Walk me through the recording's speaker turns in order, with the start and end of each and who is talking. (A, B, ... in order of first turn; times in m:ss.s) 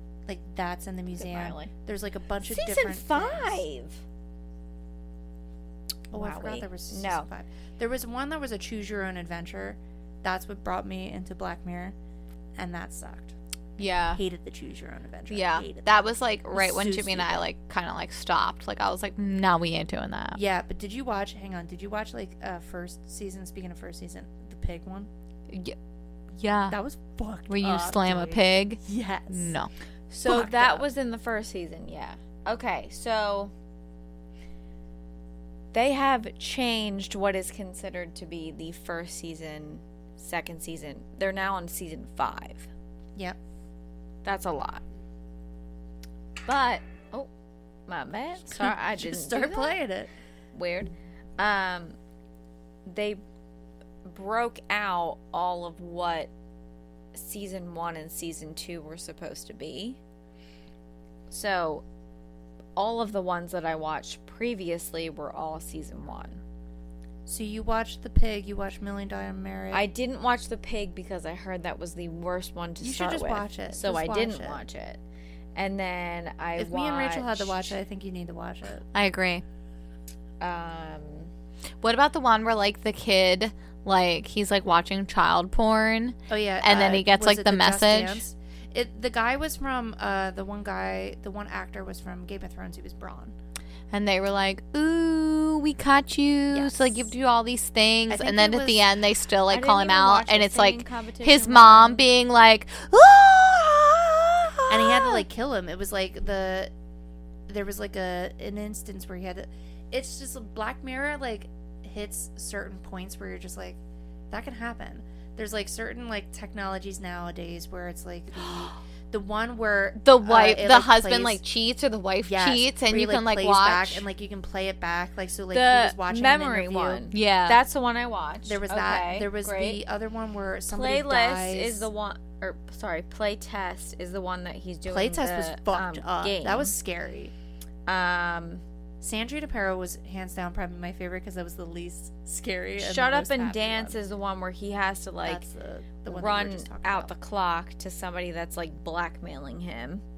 0:00.2-0:03.6 A
0:01.2-0:01.7 B
0:02.4-0:04.0 B
0:06.1-0:11.9 A
0:06.1-0:07.3 B
0:12.6-0:13.4 A
0:13.8-0:14.2 C
0:14.1-0:15.9 A
0:15.3-0:20.4 C
0:16.5-0:17.4 A
0:20.3-0:25.1 A
0:25.5-0:25.7 C
0:26.4-0:26.8 C
0:26.7-0:29.5 A
0:27.5-0:29.7 C
0:30.1-0:33.5 B
0:30.2-0:30.8 A
0:35.7-0:42.7 B
0:44.2-0:44.8 B
0:46.4-0:47.3 B
0:47.9-0:49.8 B
0:48.5-0:50.1 A
0:50.5-0:52.0 B
0:52.8-0:53.2 B
0:54.0-0:56.3 B
0:57.1-1:00.0 B
1:01.3-1:01.8 B
1:02.8-1:06.4 B
1:07.2-1:09.8 A
1:09.7-1:15.0 B
1:12.8-1:14.6 A
1:15.5-1:17.7 B
1:16.6-1:18.8 A
1:18.9-1:19.4 C
1:20.4-1:21.3 B
1:21.8-1:28.2 C
1:26.3-1:33.4 A
1:33.9-1:45.2 C
1:36.5-1:37.1 A
1:38.1-1:38.9 A
1:39.5-1:42.0 B
1:44.7-1:46.7 A
1:47.5-1:53.8 A
1:54.3-2:01.4 A
2:00.0-2:04.0 C
2:02.2-2:07.0 A
2:05.5-2:09.8 B
2:07.1-2:07.6 C
2:08.4-2:11.9 A
2:10.7-2:16.7 B
2:14.8-2:17.3 A
2:17.9-2:18.6 B
2:19.0-2:24.0 A
2:22.8-2:25.5 B
2:25.2-2:27.1 A
2:26.1-2:30.0 B